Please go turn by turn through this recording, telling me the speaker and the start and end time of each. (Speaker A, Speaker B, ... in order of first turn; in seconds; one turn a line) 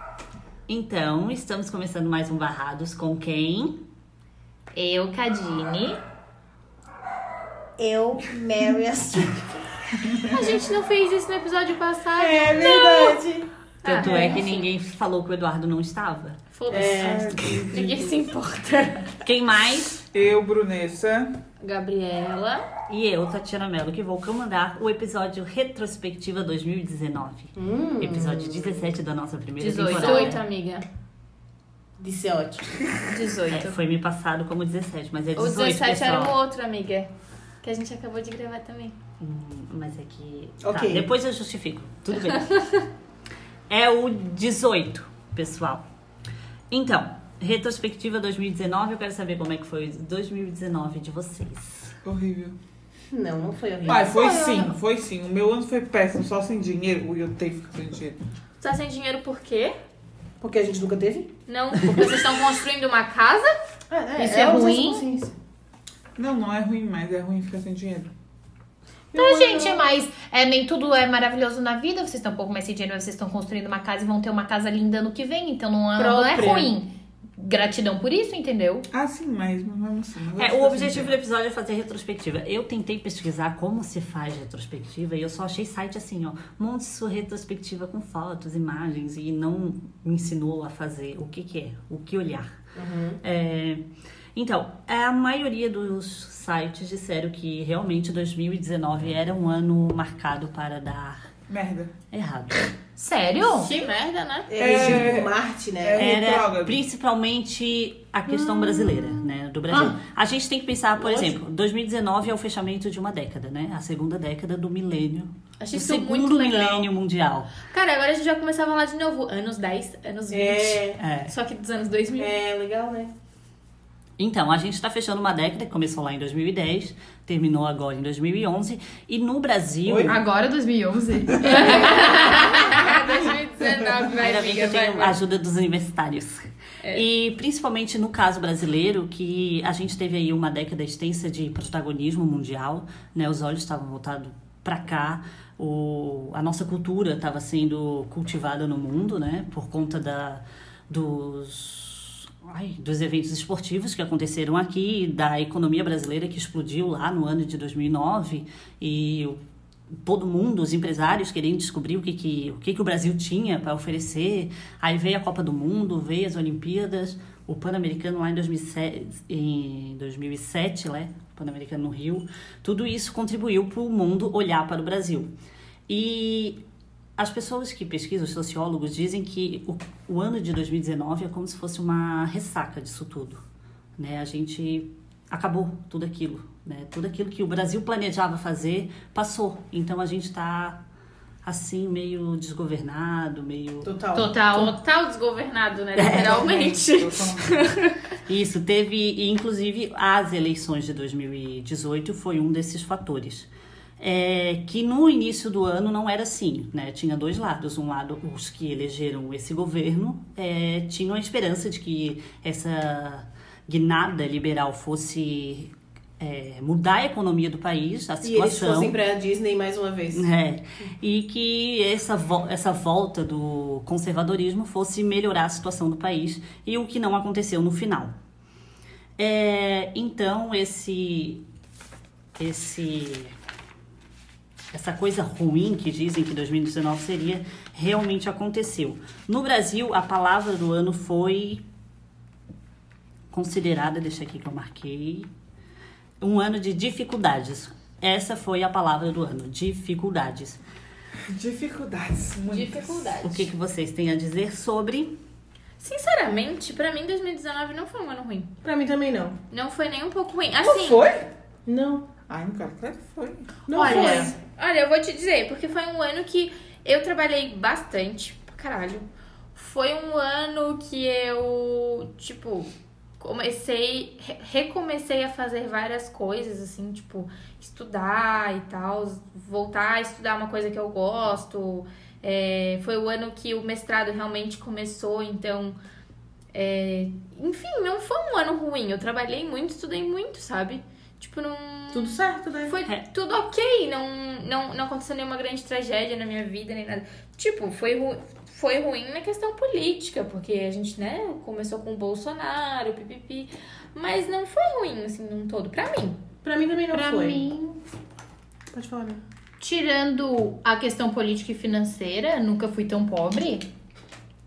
Speaker A: 0.7-3.8
Speaker B: 4.7-6.0
Speaker C: 7.8-9.9
Speaker D: 10.2-13.2
Speaker C: 12.2-13.5
Speaker E: 12.5-12.9
Speaker D: 13.8-14.6
Speaker A: 13.8-16.4
Speaker C: 14.1-14.3
Speaker D: 16.5-19.2
Speaker C: 16.7-17.8
Speaker E: 16.8-18.1
Speaker A: 19.2-20.0
Speaker E: 20.1-21.3
Speaker D: 21.6-22.6
Speaker A: 22.9-30.4
Speaker C: 27.6-28.8
Speaker B: 29.6-30.3
Speaker D: 29.8-30.8
Speaker C: 32.0-32.9
Speaker B: 33.1-33.7
Speaker A: 33.5-36.4
Speaker D: 35.3-37.1
Speaker D: 37.6-39.0
Speaker A: 39.2-42.5
Speaker C: 40.6-41.1
Speaker D: 42.3-42.8
Speaker A: 43.7-45.8
Speaker A: 46.7-52.0
Speaker E: 52.0-52.5
Speaker C: 53.1-54.2
Speaker E: 53.9-58.2
Speaker D: 54.1-54.7
Speaker D: 58.6-59.7
Speaker C: 60.4-61.3
Speaker D: 61.5-63.5
Speaker C: 63.9-65.3
Speaker B: 64.2-65.0
Speaker E: 66.2-68.1
Speaker C: 69.1-69.8
Speaker B: 69.1-78.9
Speaker C: 76.0-76.7
Speaker E: 78.9-81.1
Speaker A: 80.4-92.5
Speaker C: 92.7-93.2
Speaker A: 93.2-93.8
Speaker A: 94.3-101.3
Speaker E: 101.5-101.9
Speaker A: 102.1-102.7
Speaker B: 103.0-103.7
Speaker D: 103.5-104.5
Speaker C: 104.5-106.4
Speaker E: 104.6-106.8
Speaker A: 106.0-117.5
Speaker C: 108.3-110.0
Speaker C: 111.0-111.4
Speaker D: 115.6-116.9
Speaker D: 117.6-122.3
Speaker C: 120.3-121.0
Speaker A: 121.0-121.3
Speaker C: 122.2-123.1
Speaker A: 124.2-130.2
Speaker E: 129.8-130.2
Speaker B: 130.1-132.8
Speaker D: 131.4-135.2
Speaker E: 133.8-134.1
Speaker A: 134.2-159.4
Speaker A: 160.0-175.3
Speaker A: 175.9-176.6
Speaker A: 177.2-183.4
Speaker A: 184.0-190.8
Speaker A: 191.4-193.9
Speaker C: 193.8-194.3
Speaker B: 194.1-194.8
Speaker D: 194.5-198.0
Speaker A: 195.9-196.5
Speaker E: 196.0-197.7
Speaker A: 198.3-203.5
Speaker A: 204.0-218.9
Speaker C: 218.2-220.3
Speaker A: 220.1-228.1
Speaker A: 229.2-231.4
Speaker A: 232.4-233.3
Speaker A: 234.7-241.6
Speaker A: 243.3-245.3
Speaker A: 246.2-250.6
Speaker E: 251.3-253.2
Speaker D: 252.3-253.5
Speaker A: 253.2-255.2
Speaker D: 255.8-258.5
Speaker C: 258.6-259.4
Speaker D: 259.5-261.0
Speaker E: 260.6-261.3
Speaker C: 261.6-262.1
Speaker E: 262.3-264.1
Speaker C: 263.7-264.3
Speaker D: 263.7-285.8
Speaker D: 286.5-306.2
Speaker C: 291.9-292.7
Speaker C: 306.4-307.4
Speaker B: 306.9-307.8
Speaker C: 308.7-309.2
Speaker B: 309.6-313.7